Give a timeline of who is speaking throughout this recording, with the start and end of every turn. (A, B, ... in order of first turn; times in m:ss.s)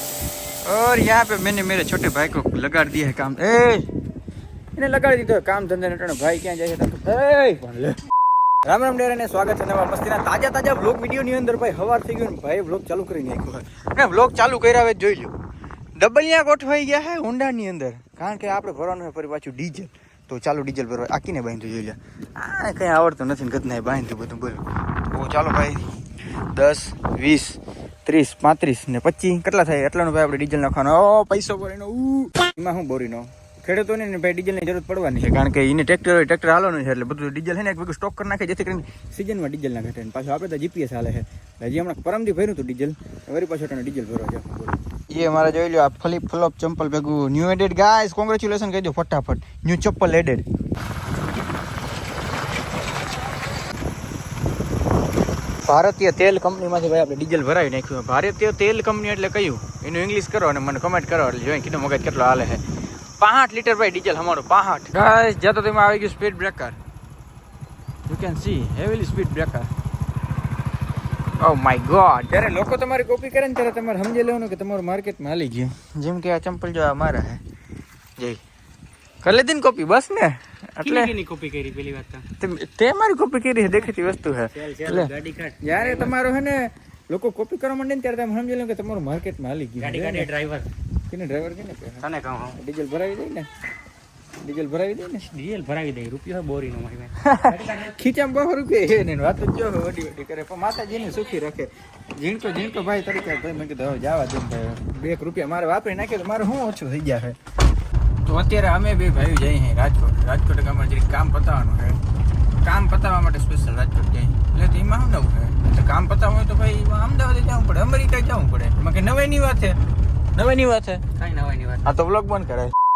0:00.6-0:03.9 A
0:04.8-0:08.1 A
0:08.6-0:15.3 A
0:16.0-0:25.9 A
0:26.5-0:50.5 A
0:55.7-1:02.6 A
1:03.2-1:06.8 A
1:08.1-1:09.7 A
1:11.4-1:17.4 A
1:19.2-1:21.1 A
1:20.8-1:22.3 B
1:22.4-1:30.3 A
1:24.5-1:26.1 B
1:29.8-1:30.7 B
1:31.1-1:33.5 A
1:32.0-1:32.6 B
1:34.4-1:35.3 A
1:35.3-1:37.9 B
1:37.2-1:47.4 A
1:48.2-1:52.0 A
1:52.6-1:59.8 A
2:00.3-2:01.0 A
2:01.2-2:01.9 B
2:01.8-2:02.8 A